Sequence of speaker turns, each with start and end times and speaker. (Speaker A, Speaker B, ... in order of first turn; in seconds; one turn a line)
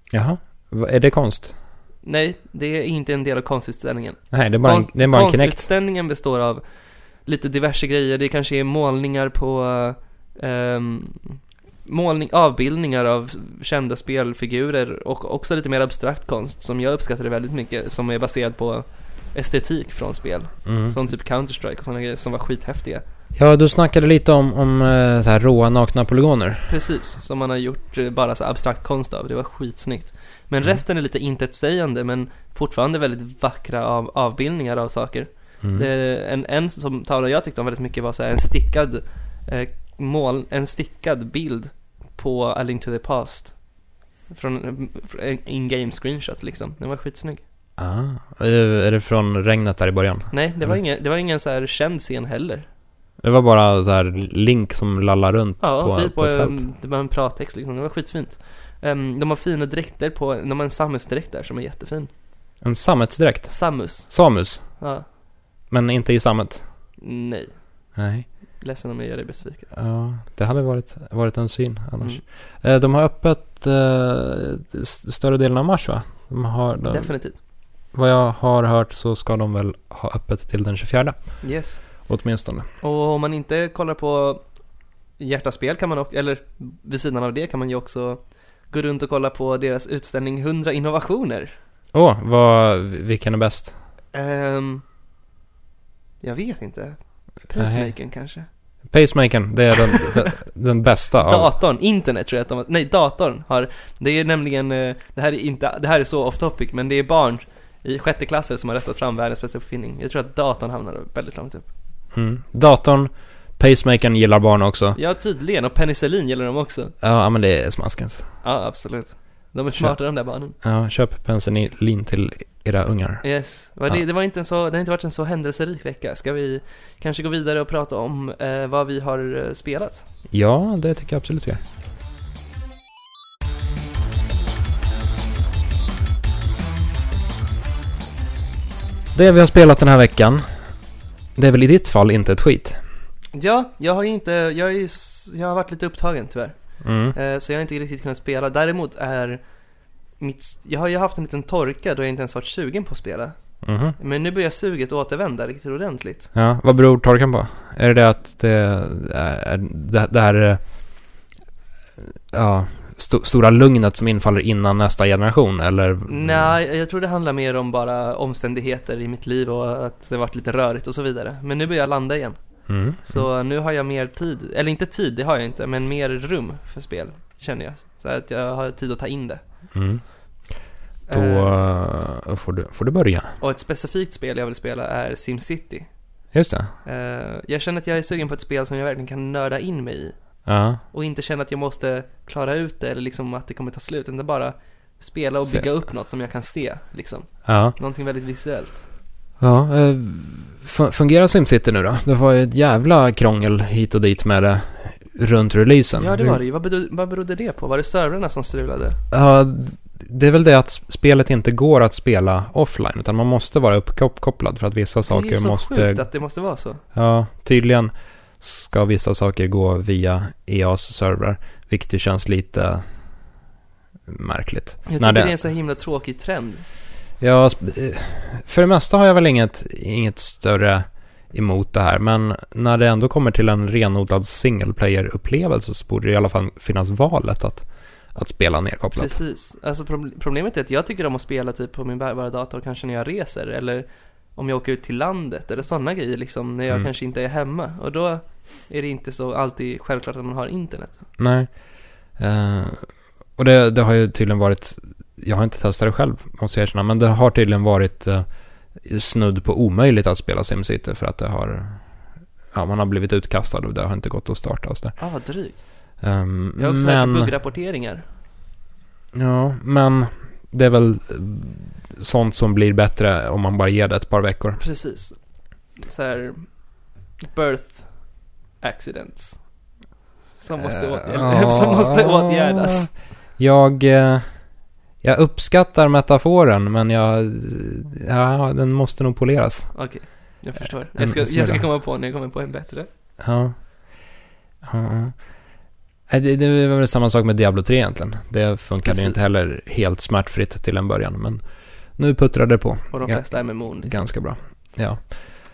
Speaker A: 0.1-1.5
Speaker B: 2.0-6.6
Speaker A: 4.3-5.7
Speaker B: 7.3-23.0
Speaker A: 20.7-20.9
Speaker A: 23.4-26.7
Speaker B: 26.7-43.6
Speaker A: 35.6-35.9
Speaker B: 44.3-47.4
Speaker A: 47.8-50.8
Speaker B: 50.3-52.7
Speaker A: 53.2-56.6
Speaker B: 55.6-62.1
Speaker A: 62.6-64.7
Speaker B: 63.5-64.1
Speaker B: 64.8-65.0
Speaker A: 65.7-66.7
Speaker B: 67.0-67.6
Speaker A: 68.0-68.3
Speaker B: 68.6-69.7
Speaker A: 69.7-77.1
Speaker B: 76.9-77.4
Speaker A: 77.9-81.4
Speaker B: 81.4-81.8
Speaker A: 82.1-82.7
Speaker B: 82.8-84.4
Speaker B: 85.2-91.5
Speaker A: 91.9-93.8
Speaker B: 94.1-94.8
Speaker B: 96.2-98.5
Speaker A: 97.6-97.9
Speaker A: 98.9-101.5
Speaker B: 101.2-111.7
Speaker A: 112.1-115.0
Speaker B: 115.0-116.9
Speaker A: 117.0-118.3
Speaker B: 118.4-120.5
Speaker A: 120.6-123.2
Speaker B: 123.2-130.1
Speaker A: 130.3-131.6
Speaker A: 139.2-140.4
Speaker A: 141.4-142.8
Speaker B: 143.3-146.6
Speaker A: 146.8-147.2
Speaker B: 147.1-149.4
Speaker B: 150.2-153.3
Speaker A: 153.6-154.0
Speaker B: 154.0-156.3
Speaker A: 156.3-160.6
Speaker A: 162.3-166.6
Speaker B: 166.1-172.4
Speaker A: 172.7-173.3
Speaker B: 173.0-179.4
Speaker A: 179.7-180.0
Speaker B: 181.1-181.6
Speaker A: 181.1-183.4
Speaker B: 183.4-185.9
Speaker A: 186.3-186.7
Speaker B: 186.8-190.2
Speaker A: 190.5-190.8
Speaker B: 190.9-198.9
Speaker A: 197.5-197.8
Speaker A: 199.4-206.4
Speaker B: 206.0-209.0
Speaker A: 209.1-216.0
Speaker B: 215.1-216.8
Speaker A: 216.9-222.8
Speaker A: 224.1-225.3
Speaker B: 224.9-226.6
Speaker A: 227.2-239.2
Speaker B: 239.0-243.8
Speaker B: 244.4-251.0
Speaker A: 251.2-251.5
Speaker A: 252.2-252.9
Speaker A: 253.4-258.2
Speaker A: 258.8-261.9
Speaker A: 262.5-264.9
Speaker B: 265.0-265.6
Speaker A: 266.0-267.3
Speaker B: 266.6-268.0
Speaker A: 269.1-274.6
Speaker B: 274.6-275.2
Speaker B: 275.8-276.5
Speaker B: 277.2-277.9
Speaker B: 278.6-279.4
Speaker B: 280.4-282.9
Speaker A: 280.6-284.3
Speaker A: 285.0-289.8
Speaker B: 289.7-292.9
Speaker A: 291.0-291.7
Speaker A: 293.2-293.6
Speaker A: 294.6-295.2
Speaker A: 296.1-301.4
Speaker B: 298.9-299.2
Speaker A: 302.0-303.3
Speaker B: 302.9-304.0
Speaker A: 303.8-305.1